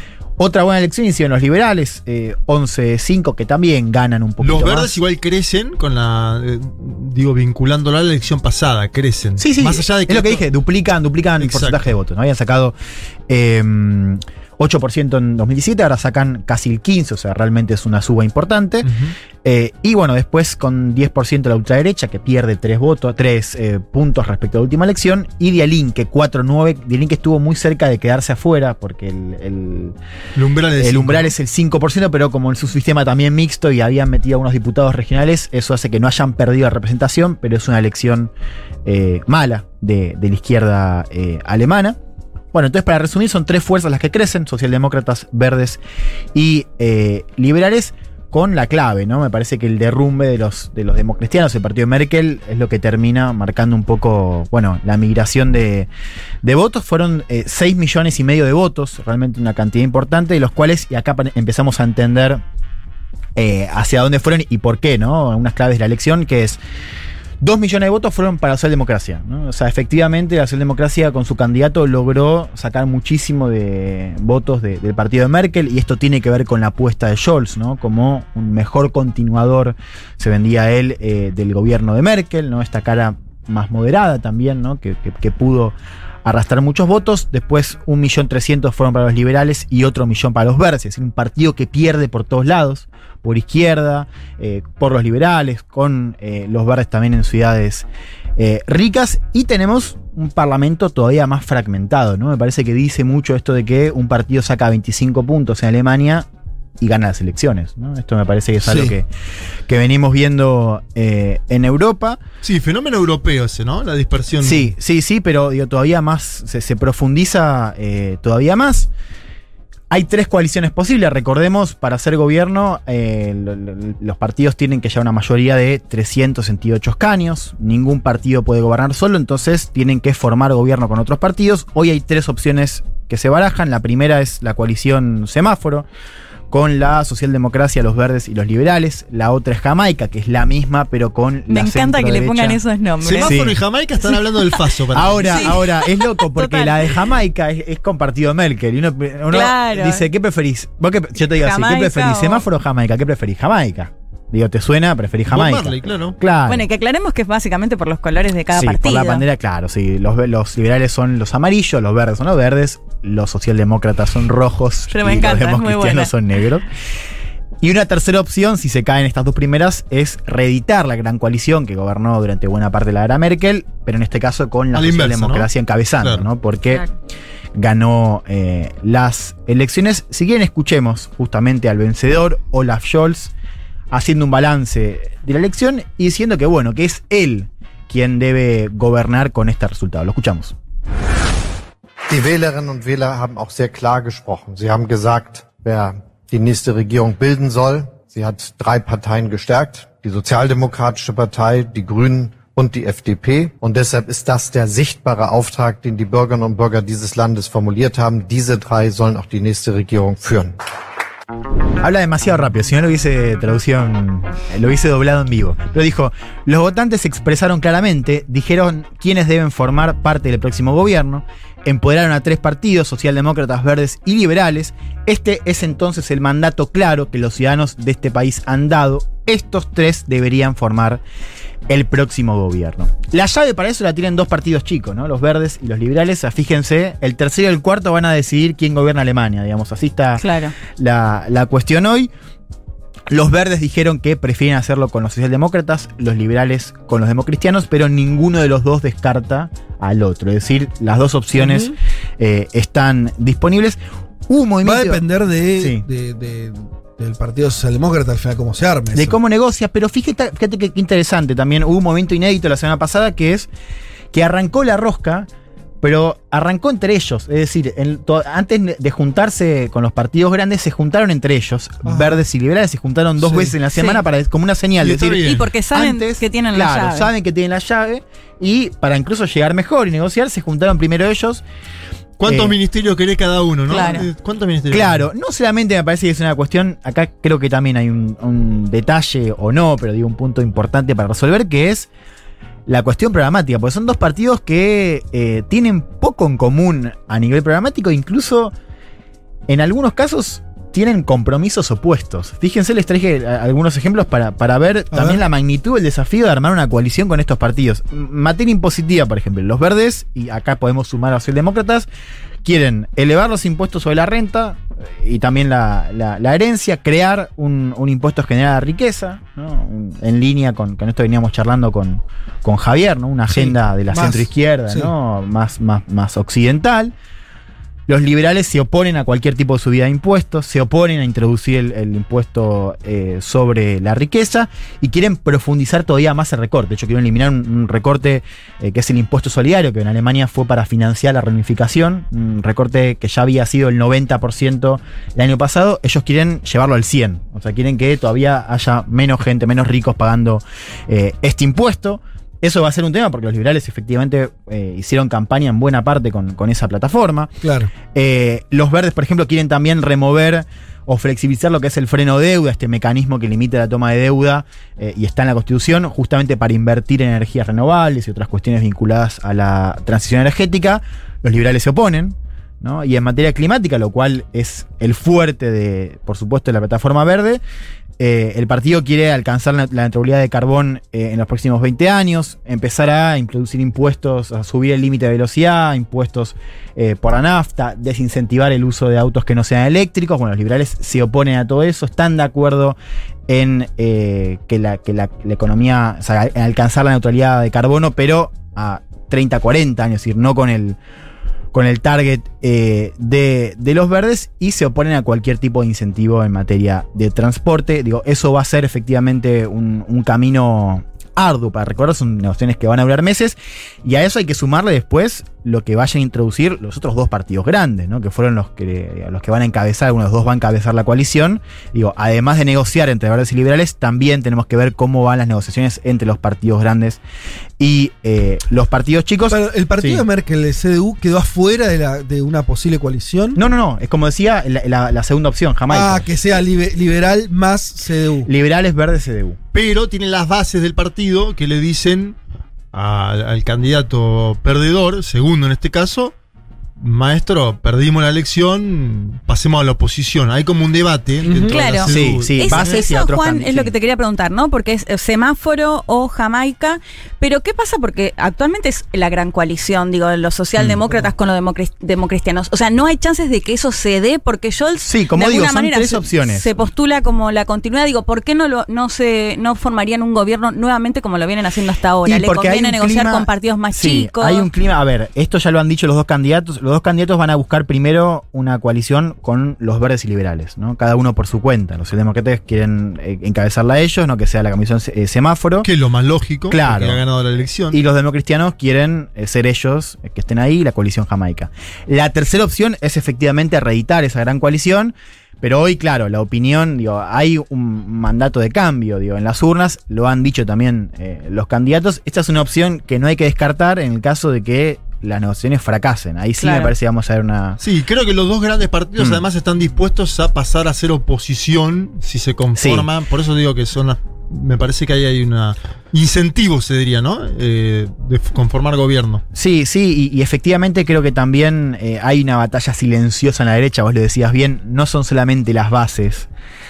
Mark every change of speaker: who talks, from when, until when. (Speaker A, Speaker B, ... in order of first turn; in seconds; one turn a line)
Speaker A: 0.4-5.0
Speaker B: 4.4-10.5
Speaker A: 9.4-12.8
Speaker B: 11.4-11.8
Speaker A: 13.3-18.9
Speaker B: 18.8-19.1
Speaker A: 19.4-30.0
Speaker B: 30.4-31.3
Speaker A: 30.8-38.3
Speaker A: 38.9-42.0
Speaker A: 42.5-45.8
Speaker A: 46.3-55.9
Speaker A: 56.4-62.4
Speaker A: 63.4-66.6
Speaker A: 67.4-97.9
Speaker A: 98.4-106.3
Speaker A: 106.8-109.1
Speaker C: 108.6-108.9
Speaker A: 109.7-112.2
Speaker B: 112.4-114.7
Speaker A: 114.4-118.9
Speaker A: 119.9-135.9
Speaker A: 136.5-142.6
Speaker D: 141.5-143.3
Speaker B: 143.0-145.7
Speaker A: 143.2-143.6
Speaker A: 144.9-156.7
Speaker D: 145.2-147.0
Speaker D: 149.3-150.1
Speaker D: 151.4-152.4
Speaker B: 155.3-156.2
Speaker D: 156.5-159.2
Speaker A: 158.5-166.7
Speaker D: 164.9-166.1
Speaker A: 167.6-176.9
Speaker B: 174.7-175.5
Speaker A: 177.6-183.3
Speaker A: 183.9-190.6
Speaker E: 192.1-210.6
Speaker A: 211.8-231.0
Speaker A: 231.7-242.1
Speaker D: 240.2-240.5
Speaker A: 243.1-255.0
Speaker C: 251.3-251.8
Speaker C: 254.6-259.2
Speaker A: 255.6-255.8
Speaker A: 258.9-263.5
Speaker A: 264.1-265.3
Speaker A: 265.8-281.4
Speaker C: 271.8-272.2
Speaker D: 273.7-274.0
Speaker B: 274.8-275.5
Speaker D: 275.2-277.1
Speaker B: 282.2-285.1
Speaker A: 282.2-282.6
Speaker D: 283.7-284.1
Speaker A: 283.7-284.0
Speaker A: 284.7-291.9
Speaker A: 292.7-298.5
Speaker A: 299.5-311.9
Speaker C: 304.9-305.2
Speaker A: 312.4-326.9
Speaker C: 323.3-324.9
Speaker A: 327.9-357.3
Speaker C: 357.4-357.7
Speaker A: 357.9-377.4
Speaker A: 378.0-392.8
Speaker A: 393.3-400.8
Speaker A: 401.5-427.0
Speaker A: 427.6-430.1
Speaker C: 429.3-433.4
Speaker A: 433.4-436.2
Speaker C: 435.7-438.3
Speaker A: 438.2-439.4
Speaker B: 439.5-442.2
Speaker B: 442.7-446.1
Speaker B: 446.8-452.9
Speaker C: 451.2-451.6
Speaker D: 451.4-474.5
Speaker A: 451.8-453.7
Speaker A: 460.6-460.8
Speaker A: 464.8-466.5
Speaker A: 472.1-485.7
Speaker B: 485.6-487.8
Speaker A: 486.5-487.0
Speaker A: 487.7-507.6
Speaker D: 506.4-506.7
Speaker B: 507.6-519.2
Speaker A: 509.0-509.2
Speaker A: 512.5-512.9
Speaker A: 519.3-526.3